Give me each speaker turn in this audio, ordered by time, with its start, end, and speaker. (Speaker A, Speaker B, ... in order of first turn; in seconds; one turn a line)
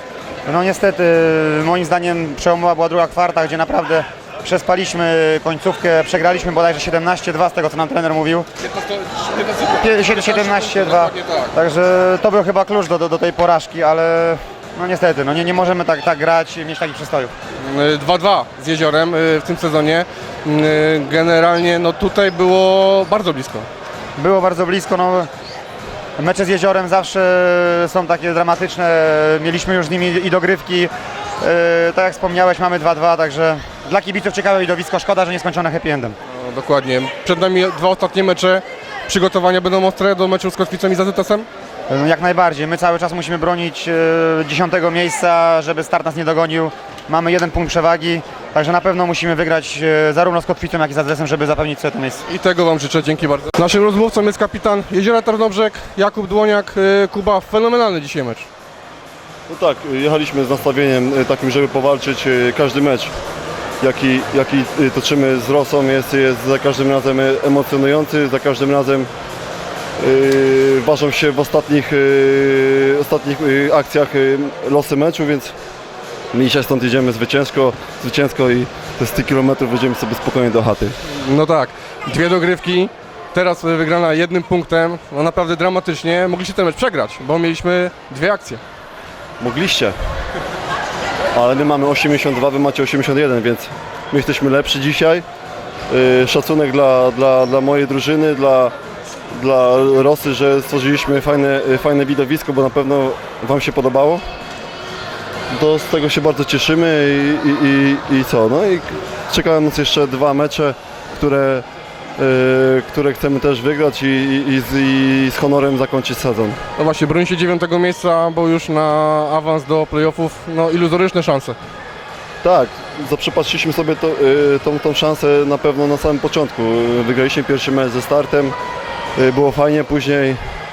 Speaker A: 0.5-8.5
Speaker B: 8.7-11.5
Speaker A: 9.7-17.3
Speaker B: 17.6-23.7
Speaker A: 24.2-25.3
Speaker A: 26.2-36.2
Speaker B: 36.3-41.5
Speaker A: 41.9-52.2
Speaker B: 52.3-58.5
Speaker C: 59.5-63.1
Speaker C: 63.8-69.1
Speaker C: 70.0-75.5
Speaker C: 76.3-81.0
Speaker B: 81.1-88.6
Speaker C: 89.4-90.0
Speaker C: 91.3-95.2
Speaker C: 95.9-98.7
Speaker C: 99.3-104.2
Speaker C: 105.5-111.7
Speaker C: 112.2-116.6
Speaker B: 116.8-121.6
Speaker C: 122.4-128.6
Speaker C: 129.2-130.4